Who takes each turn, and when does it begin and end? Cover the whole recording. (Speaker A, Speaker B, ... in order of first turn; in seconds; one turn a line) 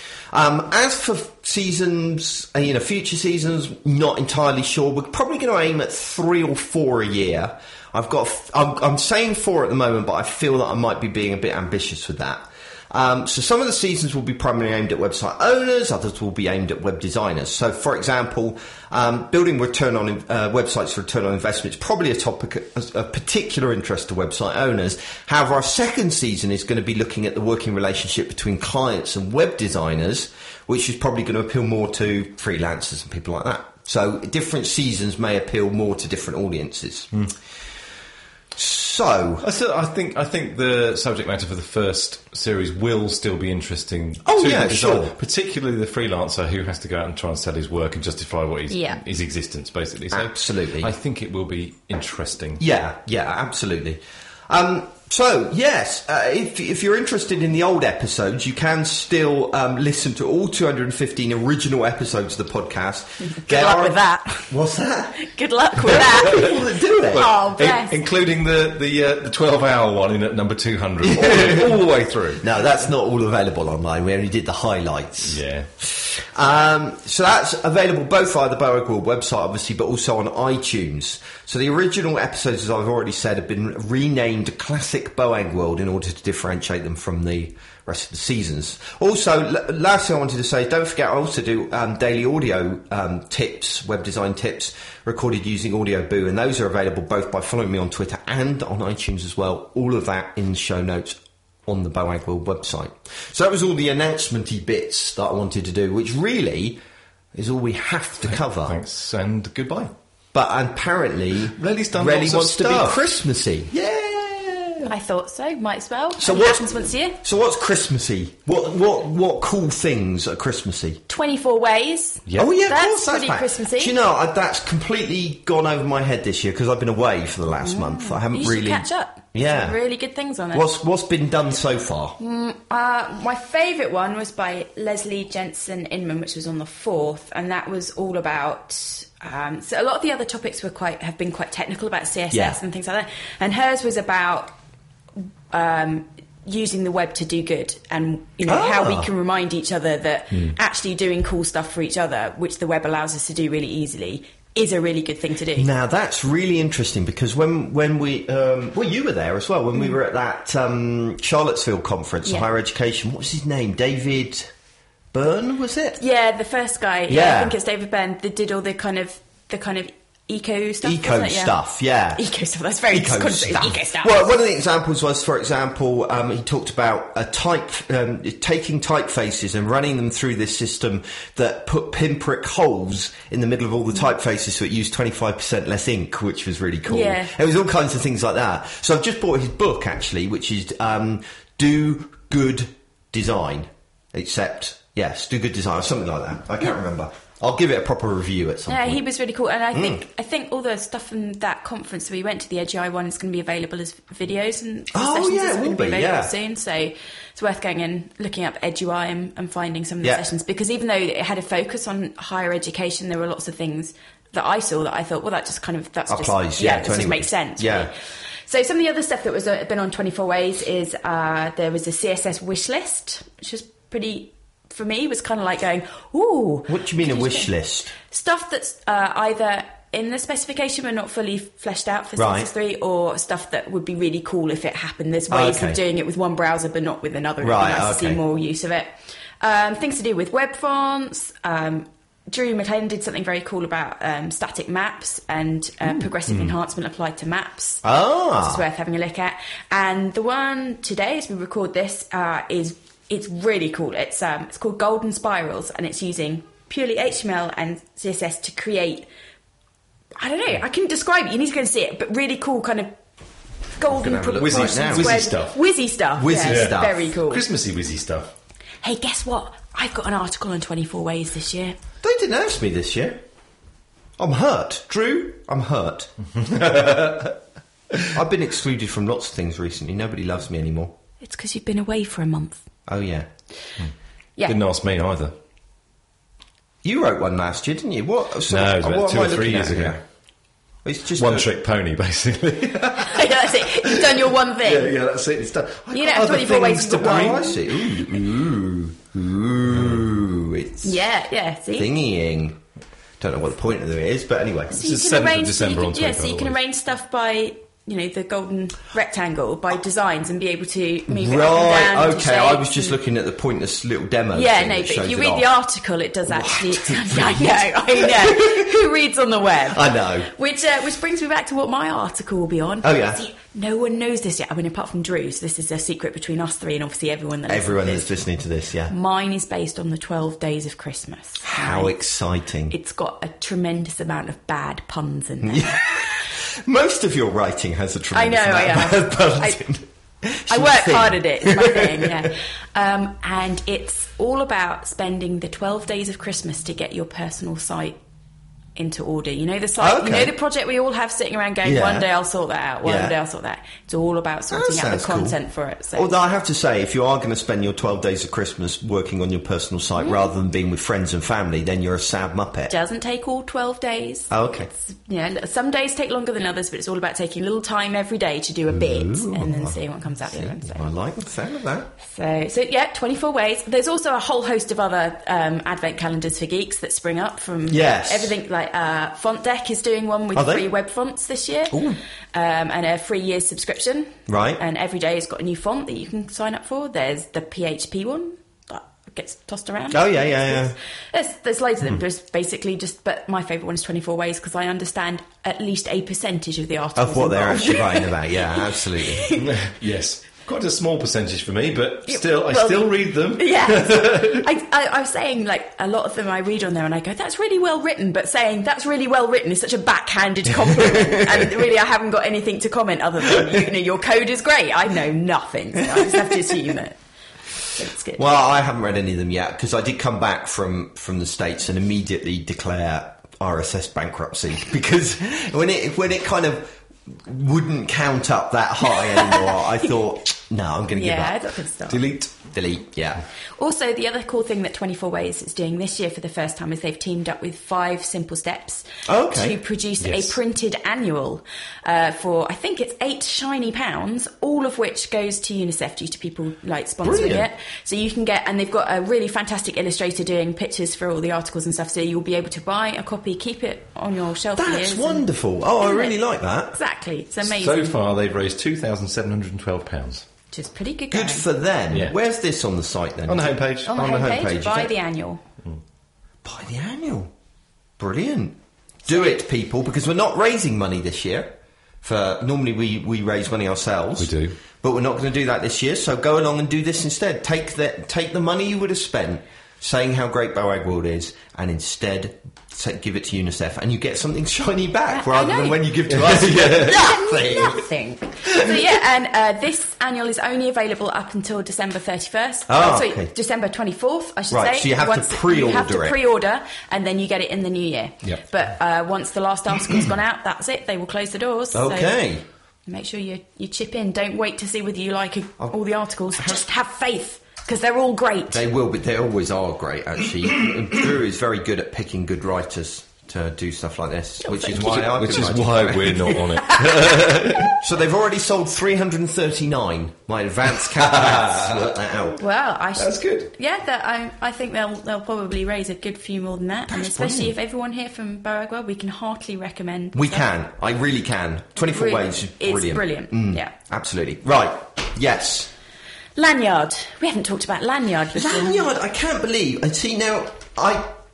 Speaker A: 0.3-37.1
Speaker A: 38.5-39.5
Speaker B: 39.4-52.6
Speaker A: 44.2-45.1
Speaker C: 48.7-49.0
Speaker A: 50.1-50.9
Speaker A: 52.6-67.3
Speaker C: 63.4-64.5
Speaker C: 65.2-66.5
Speaker C: 67.1-68.0
Speaker B: 67.1-72.5
Speaker A: 71.0-71.7
Speaker A: 72.4-106.8
Speaker B: 75.2-75.7
Speaker A: 107.3-108.8
Speaker B: 108.3-109.9
Speaker A: 110.3-114.9
Speaker B: 111.6-113.0
Speaker C: 114.8-117.2
Speaker A: 116.2-121.0
Speaker C: 121.1-124.0
Speaker B: 122.2-122.5
Speaker A: 122.3-129.8
Speaker C: 127.6-130.6
Speaker A: 130.5-132.2
Speaker C: 132.2-144.6
Speaker A: 142.3-142.6
Speaker C: 145.5-155.7
Speaker A: 148.4-149.1
Speaker A: 155.6-164.5
Speaker A: 165.1-166.0
Speaker C: 166.0-171.6
Speaker A: 167.1-167.6
Speaker A: 170.8-172.2
Speaker C: 172.1-174.3
Speaker A: 172.9-199.0
Speaker C: 186.9-187.3
Speaker C: 198.7-217.9
Speaker A: 199.7-200.0
Speaker A: 204.9-206.3
Speaker A: 216.1-217.9
Speaker C: 218.5-227.5
Speaker A: 226.7-227.9
Speaker C: 228.0-247.8
Speaker A: 232.2-232.5
Speaker A: 235.3-235.8
Speaker A: 237.4-238.2
Speaker B: 246.3-246.5
Speaker A: 247.8-248.6
Speaker C: 248.4-259.1
Speaker C: 260.2-262.9
Speaker C: 263.8-267.4
Speaker A: 263.8-265.2
Speaker B: 264.3-265.6
Speaker A: 266.2-267.1
Speaker B: 266.4-268.3
Speaker C: 268.8-271.7
Speaker A: 272.0-273.2
Speaker A: 274.2-276.1
Speaker B: 276.4-277.3
Speaker A: 278.1-280.9
Speaker C: 281.2-282.6
Speaker A: 282.9-283.3
Speaker B: 284.5-285.3
Speaker A: 286.8-290.0
Speaker B: 288.5-290.0
Speaker A: 290.8-291.5
Speaker B: 291.2-297.5
Speaker C: 293.0-294.9
Speaker C: 295.9-297.6
Speaker A: 296.1-301.0
Speaker B: 299.8-300.0
Speaker C: 300.8-301.9
Speaker A: 301.7-302.6
Speaker A: 303.2-304.8
Speaker C: 304.7-313.0
Speaker B: 304.8-306.6
Speaker A: 311.1-315.5
Speaker C: 314.3-328.2
Speaker A: 316.3-318.7
Speaker A: 319.7-320.3
Speaker A: 322.8-323.2
Speaker A: 327.5-328.9
Speaker C: 328.9-332.0
Speaker A: 331.4-332.7
Speaker C: 332.7-335.8
Speaker A: 335.4-342.3
Speaker C: 338.1-339.6
Speaker C: 340.5-348.0
Speaker C: 348.8-356.1
Speaker A: 349.8-350.3
Speaker A: 351.6-352.1
Speaker A: 352.8-353.1
Speaker A: 354.5-355.4
Speaker A: 355.9-362.7
Speaker C: 360.0-360.3
Speaker C: 362.7-370.9
Speaker A: 364.3-364.7
Speaker A: 368.7-371.9
Speaker C: 372.0-399.4
Speaker A: 377.7-378.3
Speaker A: 380.3-380.7
Speaker A: 381.7-382.0
Speaker A: 384.3-384.6
Speaker A: 389.9-390.8
Speaker A: 396.9-399.3
Speaker B: 399.4-404.4
Speaker C: 402.1-417.0
Speaker A: 411.0-411.5
Speaker C: 417.7-418.2
Speaker A: 418.1-431.4
Speaker C: 430.9-432.0
Speaker B: 431.9-432.3
Speaker A: 432.4-433.2
Speaker C: 433.6-455.2
Speaker A: 439.1-439.6
Speaker B: 440.0-440.4
Speaker A: 447.0-447.5
Speaker A: 454.6-456.8
Speaker C: 455.8-456.1
Speaker C: 456.7-458.0
Speaker B: 457.4-460.2
Speaker C: 460.5-461.4
Speaker A: 461.1-464.9
Speaker B: 463.3-464.0
Speaker C: 463.9-465.4
Speaker A: 466.4-467.3
Speaker A: 468.0-487.9
Speaker B: 474.2-474.5
Speaker C: 485.1-485.9
Speaker B: 486.1-487.0
Speaker C: 486.6-502.1
Speaker A: 488.4-488.8
Speaker A: 492.7-493.3
Speaker A: 494.5-496.2
Speaker A: 501.7-502.4
Speaker C: 502.9-508.6
Speaker A: 508.5-516.5
Speaker B: 514.6-517.8
Speaker C: 516.6-517.1
Speaker A: 517.7-522.4
Speaker B: 521.1-521.7
Speaker C: 522.4-530.4
Speaker B: 523.0-523.5
Speaker A: 526.9-527.5
Speaker A: 530.1-535.7
Speaker C: 531.9-533.7
Speaker C: 536.4-538.9
Speaker A: 538.3-541.1